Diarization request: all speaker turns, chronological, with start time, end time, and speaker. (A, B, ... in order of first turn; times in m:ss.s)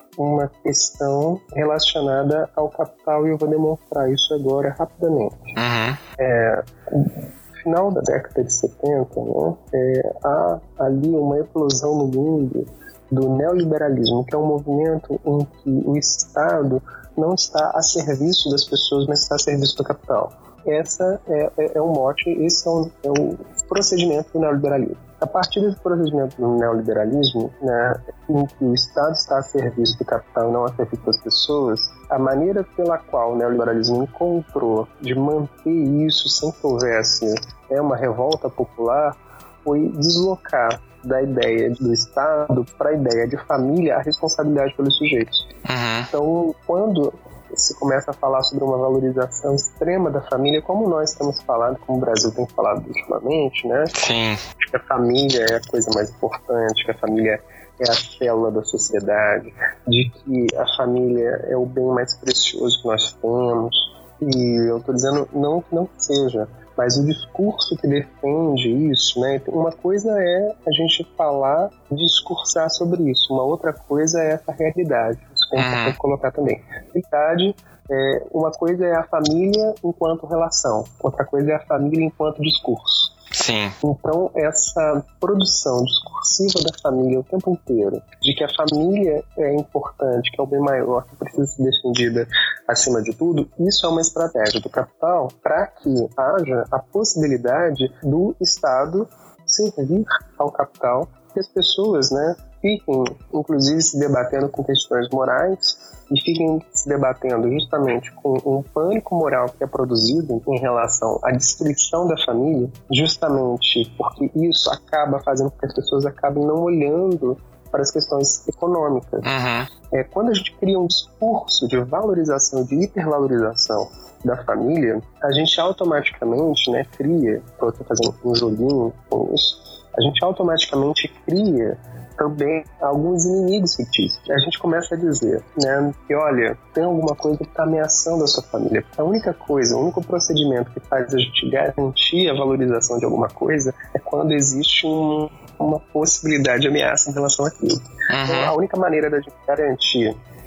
0:00.2-0:05.5 A
0:05.6-0:06.0 B
0:06.2-0:45.4 A
0:45.6-0:46.1 B
0:46.1-0:53.9 A
0:53.9-0:54.4 B
0:54.7-1:23.1 A
1:15.6-1:16.0 B
1:23.3-1:23.7 B
1:23.8-1:59.3 A
1:59.2-1:59.7 B
1:59.9-2:30.1 A
2:28.1-2:28.5 B